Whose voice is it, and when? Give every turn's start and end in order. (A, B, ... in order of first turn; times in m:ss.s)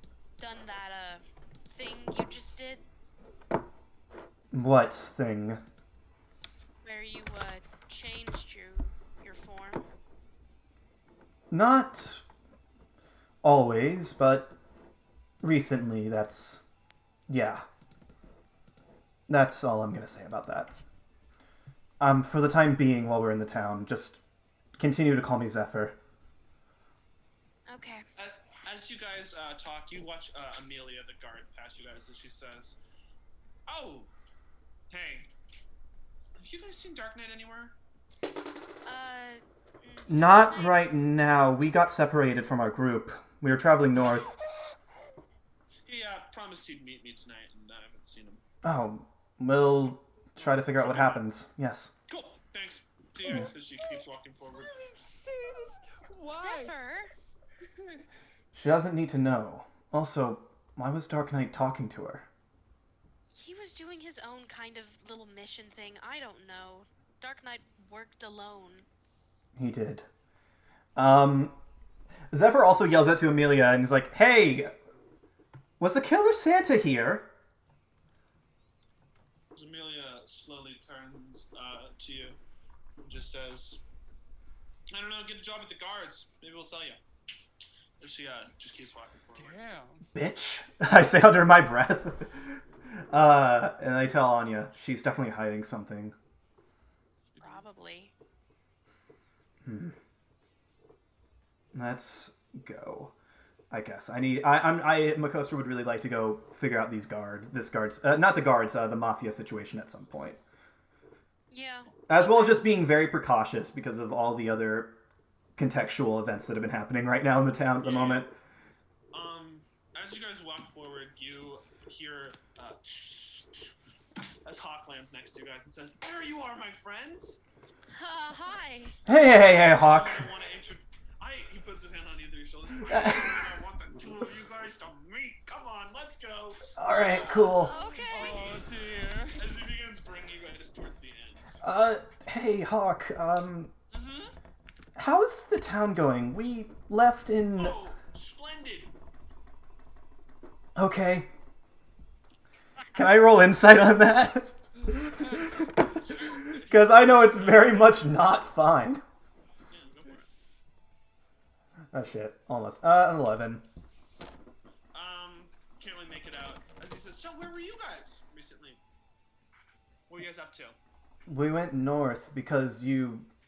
0:00.4-0:02.8 A
0:04.5-0:05.6 B
0:06.8-0:09.9 A
0:11.5-0:12.2 B
0:13.4-0:14.5 B
0:15.4-0:16.6 B
0:17.3-0:17.6 B
0:19.3-0:20.7 B
0:22.0-0:24.2 B
0:24.8-0:26.0 B
0:27.7-0:28.0 A
0:28.2-0:32.8 C
0:33.7-0:34.1 C
0:34.9-0:35.3 C
0:36.4-0:37.8 C
0:38.8-0:41.0 A
0:40.1-0:44.3 B
0:45.8-0:48.4 C
0:48.6-0:51.9 B
0:50.6-0:51.2 C
0:52.1-0:54.7 C
0:54.5-0:56.7 D
0:56.4-0:57.1 A
0:58.5-1:02.3 B
1:03.3-1:08.9 A
1:09.6-1:10.1 B
1:11.0-1:11.6 B
1:12.3-1:14.7 B
1:15.8-1:17.3 B
1:19.5-1:22.4 C
1:23.0-1:23.8 C
1:24.9-1:27.0 C
1:28.0-1:29.6 C
1:29.3-1:30.0 D
1:30.1-1:36.1 B
1:37.3-1:37.7 D
1:37.4-1:38.1 A
1:39.6-1:39.9 B
1:41.7-1:43.1 B
1:43.7-1:50.4 B
1:51.5-1:52.6 A
1:52.1-1:55.0 B
1:55.6-1:58.3 B
1:57.8-1:58.3 C
1:59.1-2:07.4 C
2:07.9-2:08.9 A
2:09.0-2:10.3 B
2:09.4-2:16.7 C
2:12.9-2:13.4 B
2:16.8-2:17.7 B
2:16.8-2:18.6 A
2:17.8-2:19.4 D
2:18.2-2:18.7 C
2:19.4-2:21.5 C
2:21.6-2:23.7 B
2:23.9-2:24.3 C
2:25.0-2:27.8 B
2:27.5-2:28.9 C
2:30.8-2:31.3 B
2:32.9-2:39.0 B
2:35.8-2:38.0 C
2:39.7-2:40.3 C
2:41.9-2:43.6 B
2:44.9-2:48.8 C
2:50.1-2:50.8 C
2:51.3-2:53.3 B